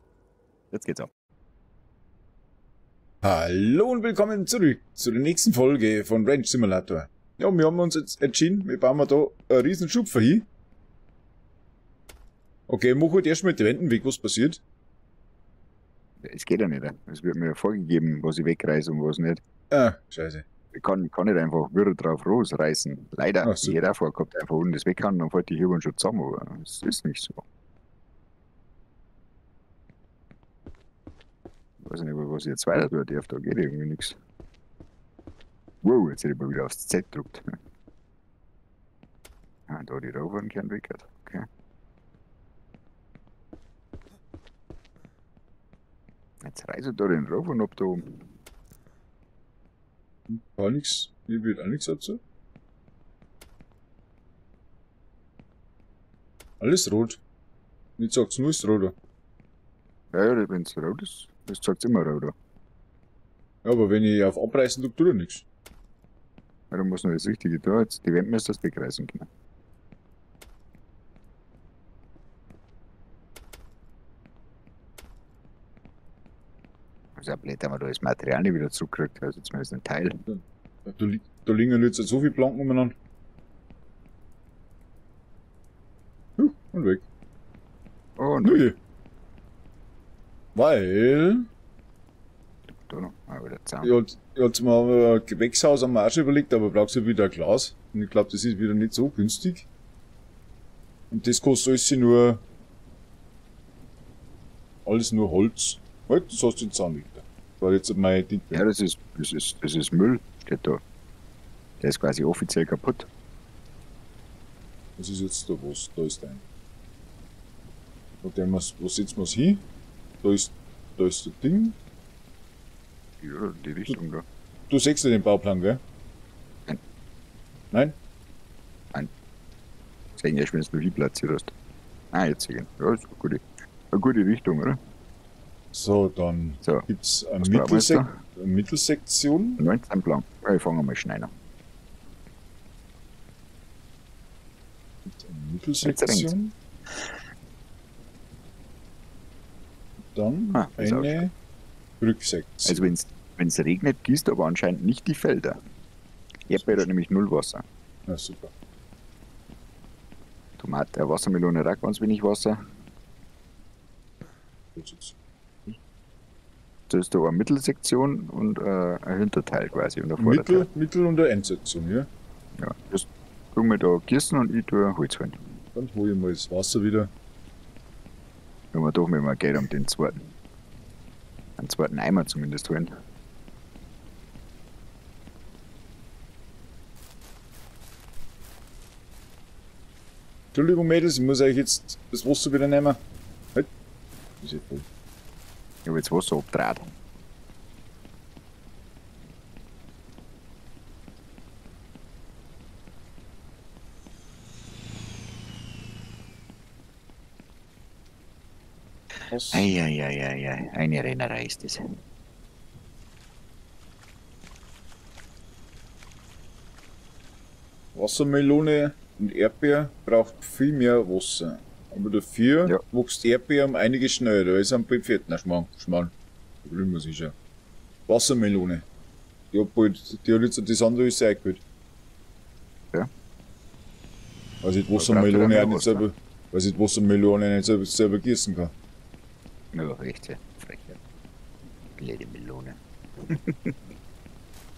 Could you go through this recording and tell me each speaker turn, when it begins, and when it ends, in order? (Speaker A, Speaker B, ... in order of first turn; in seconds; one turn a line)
Speaker A: 0.7-1.1
Speaker B: 3.2-10.5
Speaker B: 12.7-14.6
Speaker A: 16.2-19.4
Speaker B: 19.7-20.5
Speaker A: 20.7-27.4
Speaker B: 23.4-23.8
Speaker A: 31.8-34.2
Speaker A: 35.8-37.5
Speaker A: 39.7-41.5
Speaker A: 46.4-48.3
Speaker B: 50.3-52.2
Speaker B: 56.6-57.2
Speaker B: 58.0-59.0
Speaker A: 60.1-62.3
Speaker B: 63.6-65.5
Speaker A: 66.7-69.3
Speaker A: 77.2-80.2
Speaker B: 80.3-83.0
Speaker B: 86.4-87.0
Speaker A: 88.2-88.7
Speaker B: 88.4-88.8
Speaker B: 90.5-91.5
Speaker A: 92.8-94.0
Speaker B: 93.8-99.7
Speaker B: 101.1-102.4
Speaker B: 104.8-108.7
Speaker A: 108.5-110.8
Speaker A: 111.8-113.1
Speaker B: 115.0-116.4
Speaker B: 118.2-119.7
Speaker B: 120.2-121.8
Speaker A: 123.2-124.3
Speaker B: 124.7-125.8
Speaker A: 130.2-131.5
Speaker A: 132.1-134.8
Speaker B: 135.7-139.6
Speaker A: 136.6-136.9
Speaker A: 137.4-138.1
Speaker A: 139.6-141.3
Speaker B: 145.1-146.6
Speaker A: 145.8-146.3
Speaker B: 150.1-151.3
Speaker A: 150.5-151.3
Speaker B: 152.0-152.9
Speaker A: 152.7-155.6
Speaker A: 156.5-157.6
Speaker B: 156.5-156.9
Speaker B: 158.1-158.5
Speaker A: 160.6-162.6
Speaker B: 164.8-165.8
Speaker A: 166.9-170.7
Speaker B: 170.2-172.1
Speaker A: 172.6-175.4
Speaker B: 175.8-177.1
Speaker A: 178.7-180.3
Speaker A: 181.6-182.9
Speaker B: 190.5-193.0
Speaker B: 194.4-194.9
Speaker A: 195.8-196.8
Speaker B: 209.3-209.7
Speaker A: 209.5-211.8
Speaker B: 217.9-226.1
Speaker B: 226.6-227.3
Speaker B: 228.1-228.9
Speaker B: 229.5-231.6
Speaker B: 234.6-238.7
Speaker A: 234.9-236.1
Speaker A: 239.7-241.0
Speaker A: 242.0-243.8